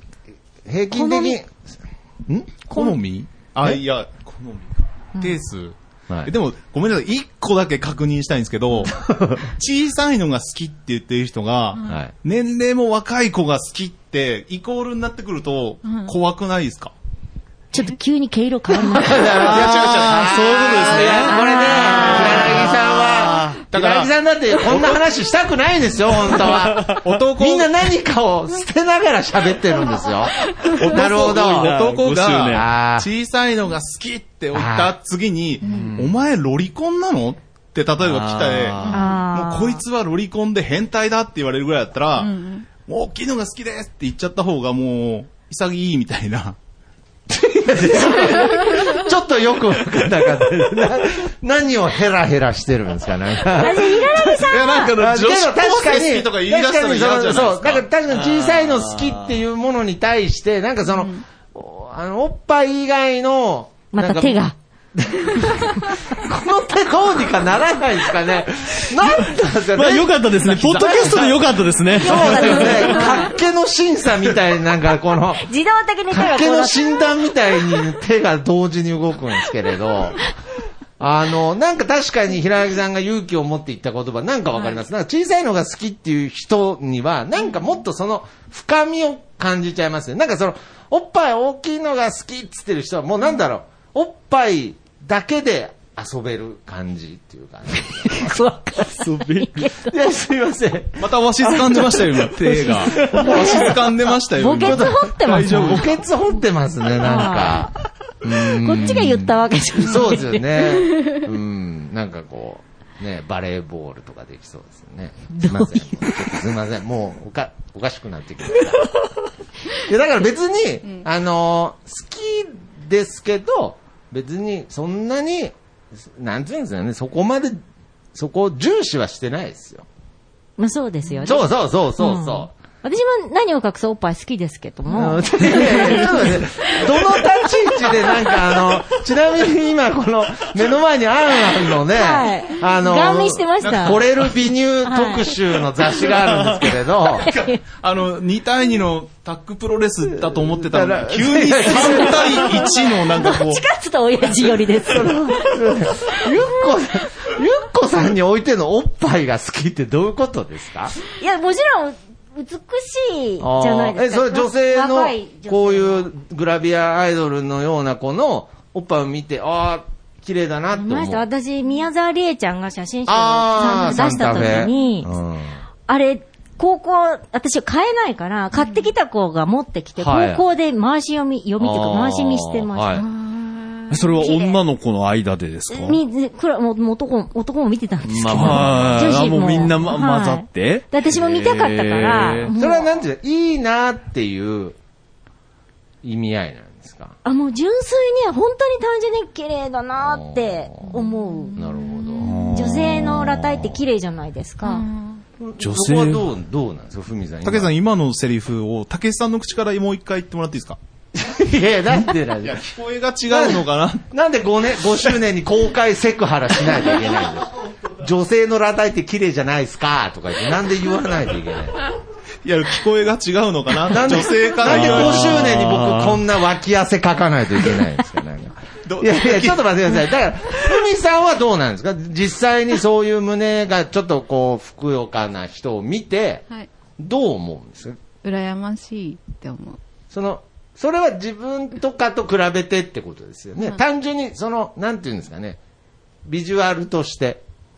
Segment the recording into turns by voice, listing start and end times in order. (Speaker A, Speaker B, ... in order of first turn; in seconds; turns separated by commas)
Speaker A: 0.6-1.7, Speaker B: 0.9-1.4, Speaker A: 2.3-2.6, Speaker C: 2.7-5.7, Speaker A: 6.1-6.3, Speaker C: 6.2-9.0, Speaker A: 8.8-9.5, Speaker C: 9.5-16.9, Speaker A: 11.8-12.1, Speaker D: 15.8-16.1, Speaker B: 17.7-19.4, Speaker A: 18.8-31.7, Speaker C: 19.1-21.3, Speaker E: 19.4-23.6, Speaker B: 21.1-22.4, Speaker C: 23.2-24.1, Speaker C: 24.6-25.0, Speaker E: 26.3-27.1, Speaker C: 26.4-27.7, Speaker D: 30.5-30.8, Speaker C: 30.8-46.5, Speaker E: 30.8-32.7, Speaker A: 32.5-33.1, Speaker A: 34.5-34.9, Speaker E: 35.6-36.1, Speaker D: 35.6-35.9, Speaker E: 38.0-39.0, Speaker B: 38.9-39.8, Speaker D: 42.2-42.7, Speaker A: 47.3-75.5, Speaker B: 53.5-54.9, Speaker C: 54.3-57.8, Speaker E: 58.2-59.1, Speaker B: 63.9-64.5, Speaker E: 69.7-72.7, Speaker B: 72.0-73.2, Speaker D: 72.9-73.3, Speaker B: 75.4-77.0, Speaker A: 76.1-80.2, Speaker A: 81.0-98.4, Speaker B: 98.1-99.9, Speaker E: 99.0-99.5, Speaker A: 99.7-101.9, Speaker C: 101.0-105.9, Speaker A: 103.1-103.7, Speaker B: 104.3-105.8, Speaker A: 104.5-118.8, Speaker B: 107.0-107.7, Speaker B: 108.6-110.4, Speaker D: 110.8-111.2, Speaker B: 115.3-116.2, Speaker A: 119.8-127.6, Speaker A: 128.1-129.8, Speaker B: 130.6-131.4, Speaker D: 131.0-131.3, Speaker A: 131.2-132.5, Speaker B: 132.0-136.1, Speaker A: 134.9-147.3, Speaker B: 141.9-144.0, Speaker C: 143.6-144.0, Speaker B: 144.8-145.2, Speaker B: 147.2-147.6, Speaker C: 147.8-153.6, Speaker A: 150.1-152.7, Speaker B: 151.9-152.5, Speaker B: 153.1-155.3, Speaker A: 154.8-161.0, Speaker B: 161.2-166.1, Speaker A: 163.4-171.3, Speaker B: 170.7-175.1, Speaker A: 173.1-175.6, Speaker B: 175.9-183.0, Speaker D: 178.5-178.8, Speaker A: 180.0-180.4, Speaker A: 181.6-183.0, Speaker D: 182.9-184.0, Speaker E: 183.9-186.0, Speaker B: 184.2-184.6, Speaker B: 185.7-192.9, Speaker E: 188.0-192.5, Speaker A: 188.6-189.0, Speaker A: 192.5-194.8, Speaker A: 196.0-197.2, Speaker B: 197.2-201.5, Speaker A: 200.0-201.0, Speaker A: 201.6-202.4, Speaker E: 202.2-203.3, Speaker B: 202.5-204.9, Speaker D: 204.6-205.2, Speaker A: 205.4-207.7, Speaker E: 205.6-206.2, Speaker C: 207.4-210.8, Speaker A: 211.1-212.6, Speaker C: 212.4-214.0, Speaker A: 213.3-221.8, Speaker C: 222.4-225.8, Speaker A: 223.9-236.4, Speaker E: 224.6-226.2, Speaker C: 228.8-229.7, Speaker A: 237.0-238.0, Speaker D: 238.2-239.8, Speaker A: 240.1-245.6, Speaker A: 246.2-247.4